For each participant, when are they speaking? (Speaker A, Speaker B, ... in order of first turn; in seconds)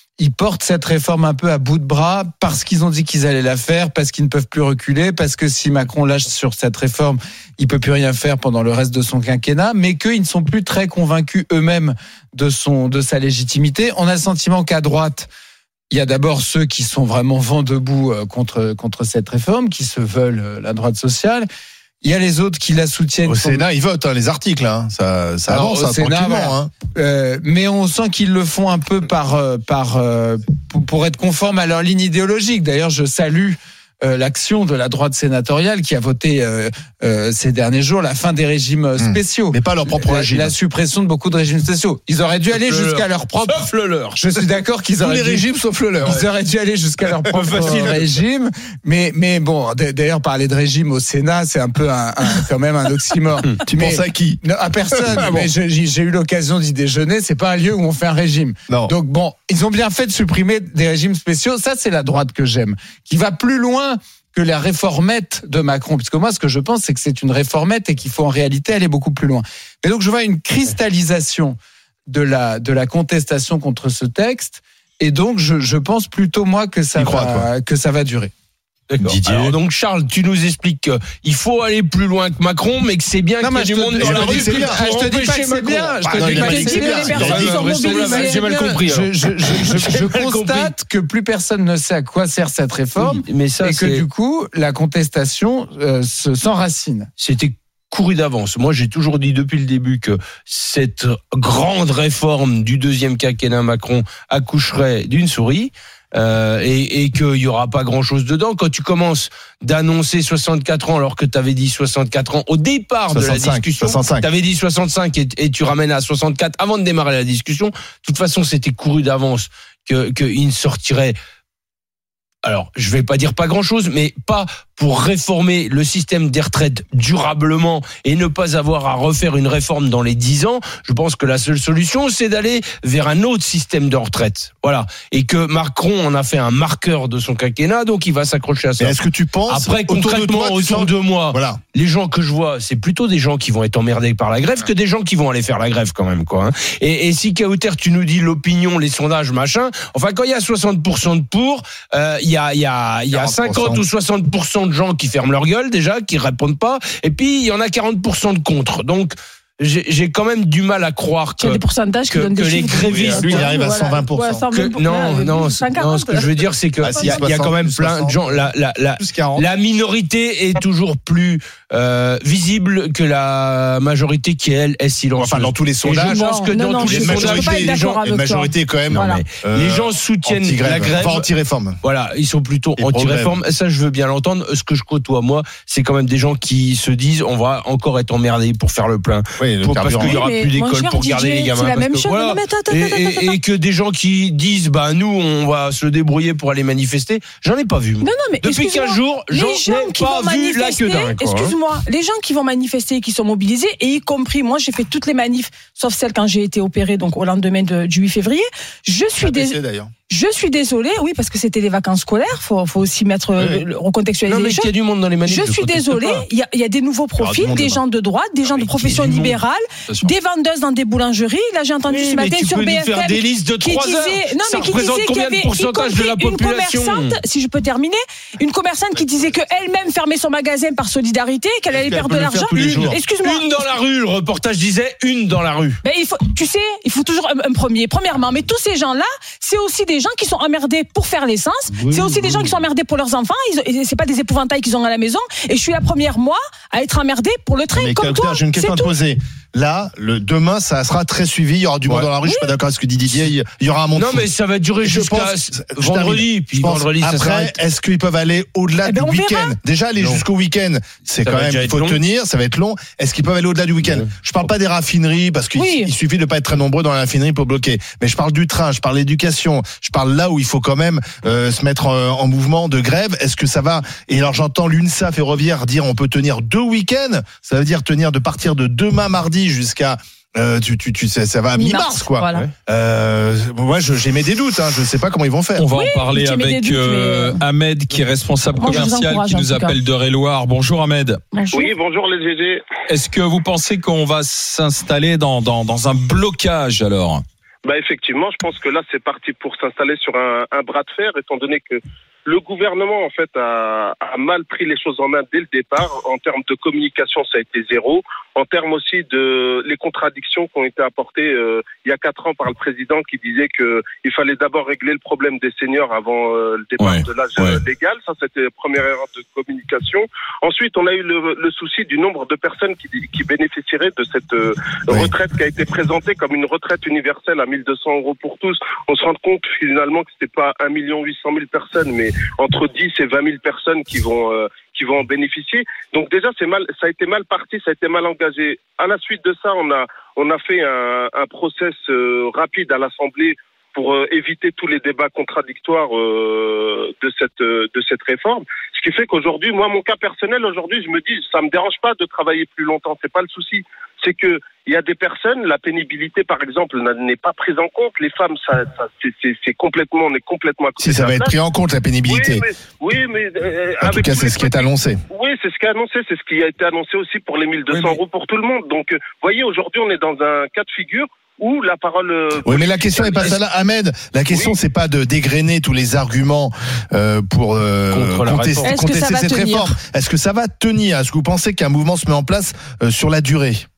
Speaker A: 0.2-15.3, 15.9-21.5, 22.0-23.6, 25.5-45.5, 46.0-78.3, 83.4-97.1
Speaker B: 23.3-26.7, 39.0-40.5, 45.0-46.2, 47.3-48.0, 53.7-55.5, 58.7-59.0, 77.0-77.5, 84.0-84.8, 86.1-87.6, 113.1-114.3, 138.8-141.6, 153.1-153.8, 162.9-164.4, 166.8-169.5, 175.2-176.2, 176.8-181.8, 182.8-183.4, 189.4-190.2, 209.2-209.9, 213.4-213.6, 217.2-217.8, 231.7-233.0, 247.7-254.3, 254.8-285.6, 360.8-362.4, 363.8-365.0, 372.4-383.7
Speaker C: 42.5-44.2, 47.4-48.0, 78.9-90.7, 93.0-94.0, 97.2-121.2, 122.4-138.9, 139.5-163.6, 164.5-178.0, 178.9-181.3, 181.8-201.5, 214.3-216.3, 218.5-219.4, 221.9-227.2, 232.5-235.8, 241.7-242.5, 254.0-257.6, 260.0-260.2, 261.2-262.0, 377.9-378.7
Speaker D: 79.0-79.5, 285.6-291.2, 292.9-297.2, 316.8-317.6, 367.7-368.0
Speaker E: 86.3-88.4, 161.4-166.4, 166.9-167.2, 176.0-179.2, 190.0-193.4, 198.0-209.6, 210.1-214.7, 215.2-233.5, 235.8-248.9, 252.2-252.5, 258.9-259.6, 265.6-265.9, 281.6-282.5, 285.7-287.4, 288.6-289.8, 291.3-291.7, 378.6-379.7
Speaker F: 291.5-292.7, 297.6-361.4, 362.1-373.4, 374.3-374.6